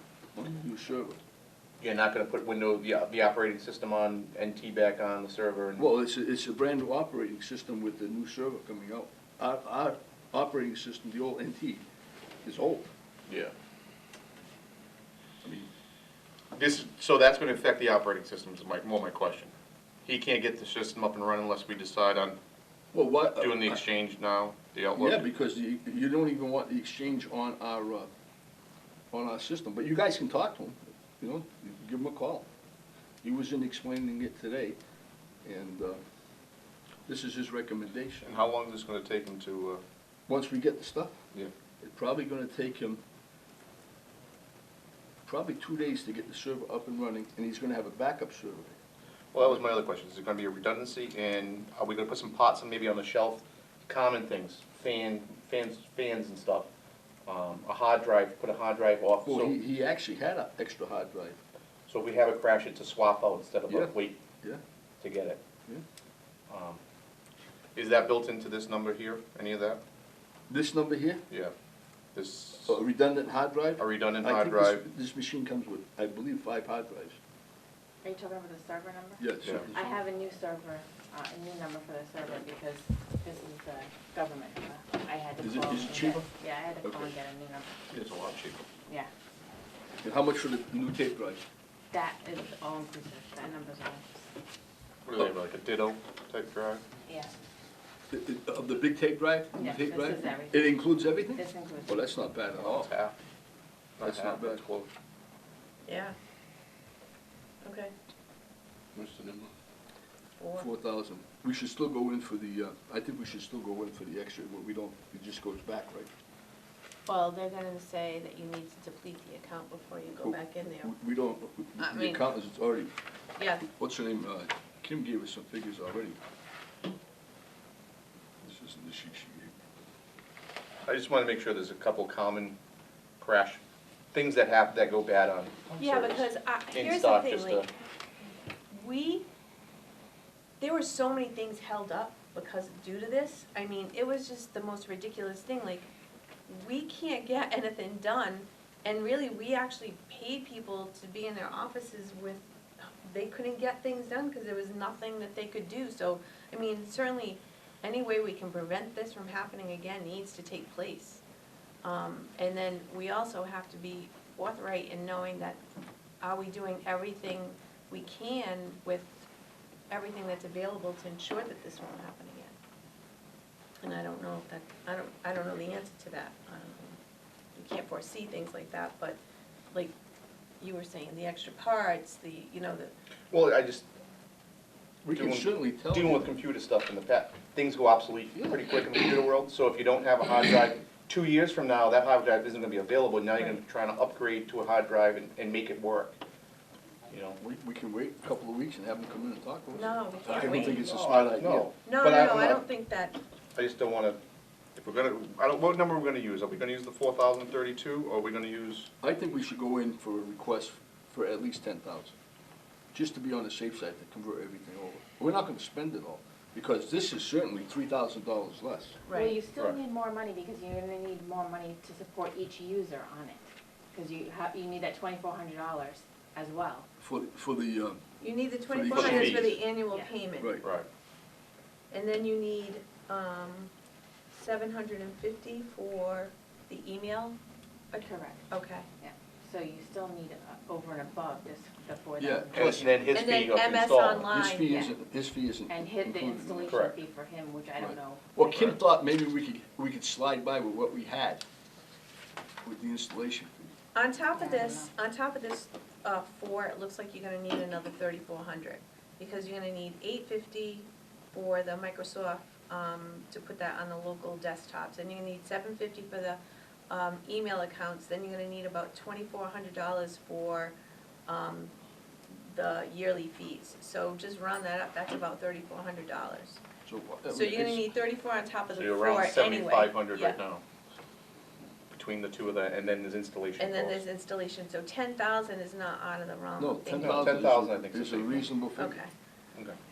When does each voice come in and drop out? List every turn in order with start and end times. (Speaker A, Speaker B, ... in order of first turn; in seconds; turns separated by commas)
Speaker A: 0.3-1.2, Speaker B: 1.8-5.9, Speaker A: 5.8-11.8, Speaker A: 12.4-12.9, Speaker B: 13.3-13.5, Speaker A: 15.4-15.7, Speaker B: 16.5-19.5, Speaker B: 20.0-22.4, Speaker A: 22.9-23.8, Speaker B: 23.4-25.3, Speaker A: 25.0-28.1, Speaker A: 29.1-32.5, Speaker A: 33.2-34.8, Speaker A: 35.4-36.0, Speaker A: 37.1-38.3, Speaker B: 38.2-39.8, Speaker A: 40.3-41.1, Speaker A: 41.8-43.0, Speaker A: 45.2-48.8, Speaker B: 49.3-56.7, Speaker B: 57.3-59.5, Speaker A: 59.2-61.4, Speaker B: 61.9-64.2, Speaker A: 63.7-64.6, Speaker B: 65.0-65.4, Speaker B: 66.5-66.8, Speaker B: 67.7-69.8, Speaker A: 70.5-71.2, Speaker B: 72.1-72.8, Speaker A: 72.7-77.2, Speaker B: 73.8-74.8, Speaker C: 78.0-87.8, Speaker A: 79.2-80.0, Speaker B: 79.4-79.7, Speaker A: 85.4-86.3, Speaker A: 86.8-87.1, Speaker B: 87.9-88.6, Speaker A: 90.0-91.4, Speaker C: 91.9-94.3, Speaker B: 95.0-96.8, Speaker C: 97.1-97.3, Speaker A: 98.1-102.9, Speaker C: 99.5-102.0, Speaker B: 102.5-103.1, Speaker B: 104.0-104.9, Speaker A: 104.0-104.7, Speaker D: 105.8-106.1, Speaker D: 107.6-107.9, Speaker B: 108.9-109.5, Speaker D: 110.4-110.7, Speaker A: 110.5-116.1, Speaker D: 117.0-120.9, Speaker A: 120.2-122.9, Speaker D: 121.8-122.2, Speaker D: 123.4-123.7, Speaker A: 123.7-126.2, Speaker A: 128.4-129.5, Speaker B: 130.8-132.6, Speaker B: 133.2-133.6, Speaker B: 134.1-137.7, Speaker D: 135.8-137.7, Speaker D: 138.7-139.2, Speaker D: 140.6-145.9, Speaker D: 146.5-161.2, Speaker D: 161.8-165.6, Speaker D: 166.2-169.2, Speaker D: 169.9-172.5, Speaker D: 173.8-177.0, Speaker D: 177.5-179.2, Speaker D: 180.6-182.9, Speaker B: 183.3-183.8, Speaker A: 185.0-186.3, Speaker B: 185.1-196.2, Speaker B: 197.1-197.4, Speaker A: 197.4-201.7, Speaker D: 199.7-200.9, Speaker B: 200.7-202.6, Speaker D: 201.8-203.2, Speaker B: 203.6-204.2, Speaker B: 204.8-208.9, Speaker A: 209.0-212.2, Speaker A: 212.9-219.0, Speaker D: 219.1-219.4, Speaker C: 219.1-226.8, Speaker A: 227.0-228.0, Speaker D: 228.2-230.6, Speaker A: 228.7-229.6, Speaker B: 228.9-229.6, Speaker A: 230.4-230.6, Speaker D: 231.9-233.7, Speaker D: 234.3-237.4, Speaker C: 237.9-238.4, Speaker D: 238.5-238.8, Speaker C: 239.0-243.1, Speaker A: 242.2-242.8, Speaker B: 242.5-244.3, Speaker D: 243.1-244.9, Speaker A: 244.3-246.8, Speaker C: 245.7-248.7, Speaker B: 246.7-246.9, Speaker A: 247.8-251.4, Speaker B: 248.4-248.7, Speaker A: 252.6-253.7, Speaker D: 253.9-270.7, Speaker C: 254.3-254.9, Speaker D: 271.3-271.7, Speaker D: 272.3-276.6, Speaker A: 276.9-277.8, Speaker D: 277.3-280.4, Speaker B: 278.7-280.6, Speaker B: 281.9-284.0, Speaker D: 283.6-287.3, Speaker A: 286.6-289.0, Speaker B: 287.0-288.5, Speaker D: 288.8-289.1